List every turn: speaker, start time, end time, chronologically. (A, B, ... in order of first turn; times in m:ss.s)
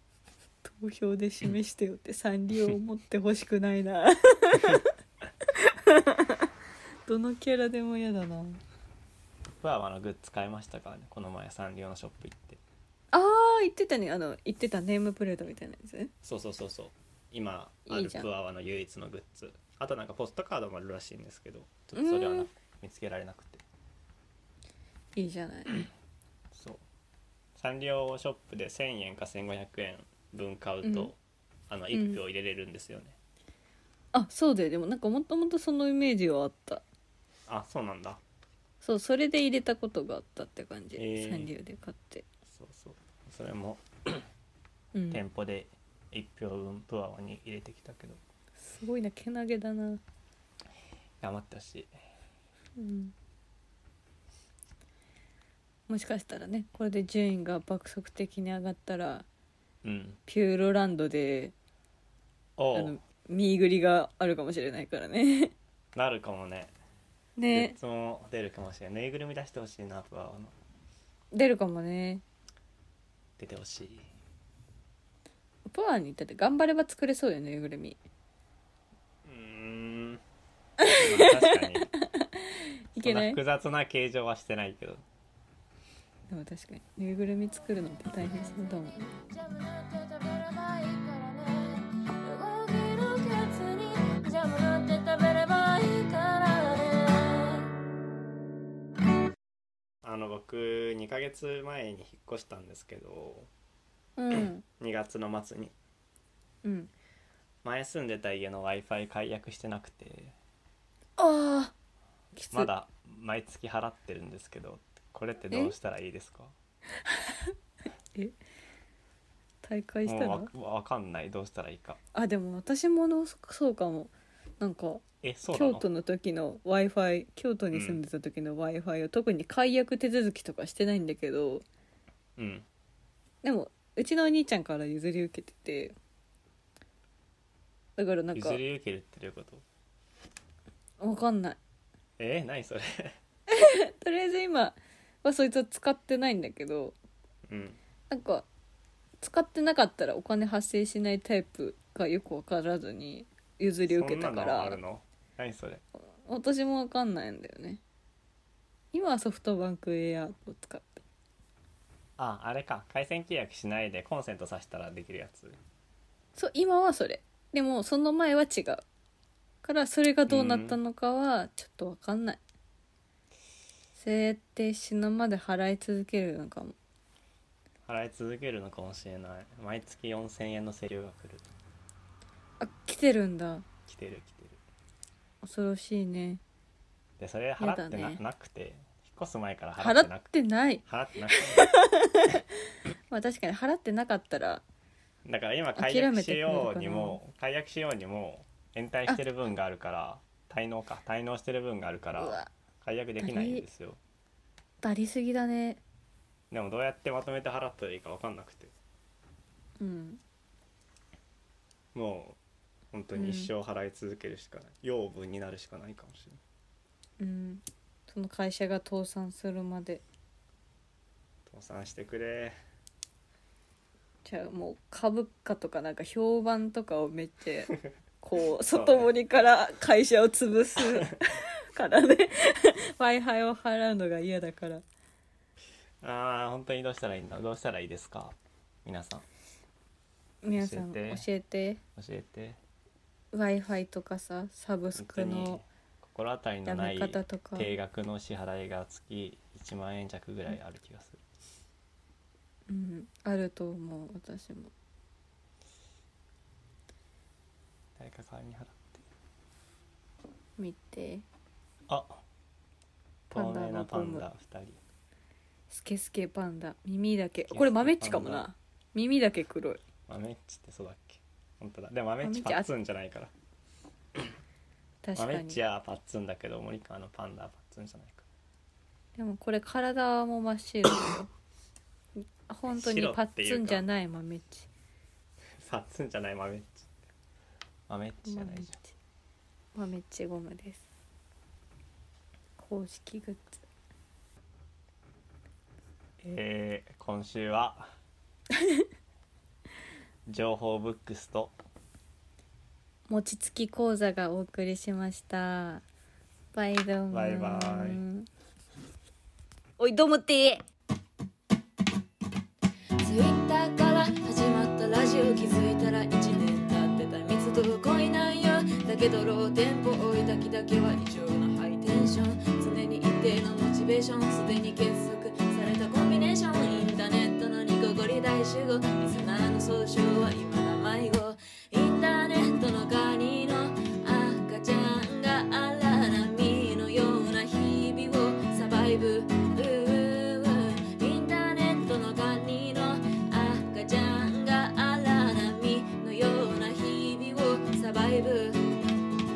0:00.6-0:04.8 A
0:05.5-0:06.5 A
0:07.0-0:08.6 A
0:09.6-0:12.6 B
0:13.1-0:16.1 A
0:16.2-0:23.6 B
0:17.9-0:18.3 A
0:22.0-0:22.5 A
0:25.2-0:25.9 A
0:26.5-0:26.8 B
0:27.6-0:31.2 B
0:30.8-0:31.1 A
0:31.7-0:33.2 B
0:31.9-0:32.2 A
0:34.1-0:36.8 A
0:37.5-0:38.2 B
0:38.8-0:42.2 A
0:41.0-0:41.5 B
0:42.5-0:44.3 B
0:44.9-0:45.2 A
0:45.1-0:48.2 B
0:48.6-0:50.0 A
0:51.2-0:51.9 B
0:52.8-0:53.1 A
0:55.9-0:59.2 A
0:59.8-1:00.2 B
1:00.3-1:01.5 A
1:02.6-1:02.9 B
1:02.7-1:05.5 A
1:05.9-1:06.7 B
1:07.4-1:07.8 A
1:07.5-1:10.5 B
1:11.3-1:12.2 A
1:13.4-1:14.1 B
1:15.7-1:18.0 A
1:19.2-1:20.2 B
1:20.8-1:23.4 A
1:20.9-1:21.9 B
1:23.0-1:25.0 B
1:26.3-1:29.1 A
1:29.1-1:37.7 C
1:40.0-1:43.5 B
1:44.2-1:44.6 A
1:44.3-1:45.7 B
1:46.6-1:46.9 A
1:47.6-1:50.3 B
1:51.2-1:51.7 A
1:52.3-1:52.7 A
1:52.5-1:56.5 B
1:57.0-1:57.5 A
1:59.6-2:00.5 A
2:00.0-2:02.0 B
2:02.1-2:11.6 A
2:05.2-2:05.8 B
2:07.7-2:08.0 B
2:12.4-2:12.6 B
2:13.4-2:15.9 A
2:18.0-2:18.6 A
2:18.3-2:19.6 B
2:21.0-2:21.6 A
2:22.2-2:23.2 B
2:23.5-2:27.0 A
2:27.5-2:27.8 B
2:28.1-2:28.4 A
2:29.2-2:34.8 A
2:33.9-2:35.8 B
2:36.2-2:37.8 A
2:38.9-2:41.0 A
2:42.2-2:45.6 B
2:46.4-2:48.8 A
2:49.6-2:52.4 A
2:50.3-2:50.8 B
2:54.0-2:56.7 A
2:57.8-3:01.5 B
3:02.6-3:03.6 A
3:03.8-3:04.6 B
3:05.4-3:06.4 A
3:07.2-3:10.3 B
3:07.6-3:08.2 A
3:09.8-3:12.4 A
3:10.8-3:11.7 B
3:13.1-3:14.6 A
3:15.2-3:24.0 B
3:15.8-3:17.2 A
3:22.2-3:22.5 A
3:23.2-3:23.6 A
3:24.8-3:25.8 A
3:26.5-3:28.7 B
3:29.8-3:30.2 A
3:31.9-3:32.4 B
3:32.9-3:36.4 B
3:33.1-3:33.5 A
3:37.2-3:40.0 A
3:41.4-3:42.6 B
3:44.2-3:54.8 A
3:48.7-3:49.1 B
3:50.8-3:51.1 B
3:56.0-3:59.2 B
4:00.4-4:01.8 A
4:00.5-4:01.2 B
4:02.0-4:02.6 B
4:03.3-4:05.6 A
4:04.9-4:11.2 B
4:06.6-4:07.7 A
4:12.7-4:14.7 A
4:18.0-4:19.0 B
4:20.6-4:21.2 A
4:21.9-4:22.2 B
4:23.3-4:24.8 B
4:23.3-4:24.2 A
4:25.7-4:29.8 A
4:27.5-4:28.4 B
4:30.1-4:33.3 B
4:32.2-4:32.6 A
4:35.0-4:35.6 A
4:35.2-4:38.2 B
4:39.2-4:41.3 A
4:42.5-4:44.7 A
4:42.7-4:43.8 B
4:45.6-4:47.0 B
4:47.9-4:48.8 B
4:48.2-4:48.9 A
4:49.7-4:50.8 A
4:52.6-4:53.6 A
4:56.2-4:57.9 B
5:00.3-5:01.5 B
5:03.1-5:05.8 A
5:06.5-5:08.3 A
5:07.1-5:08.0 B
5:09.8-5:10.6 A
5:13.0-5:48.6 C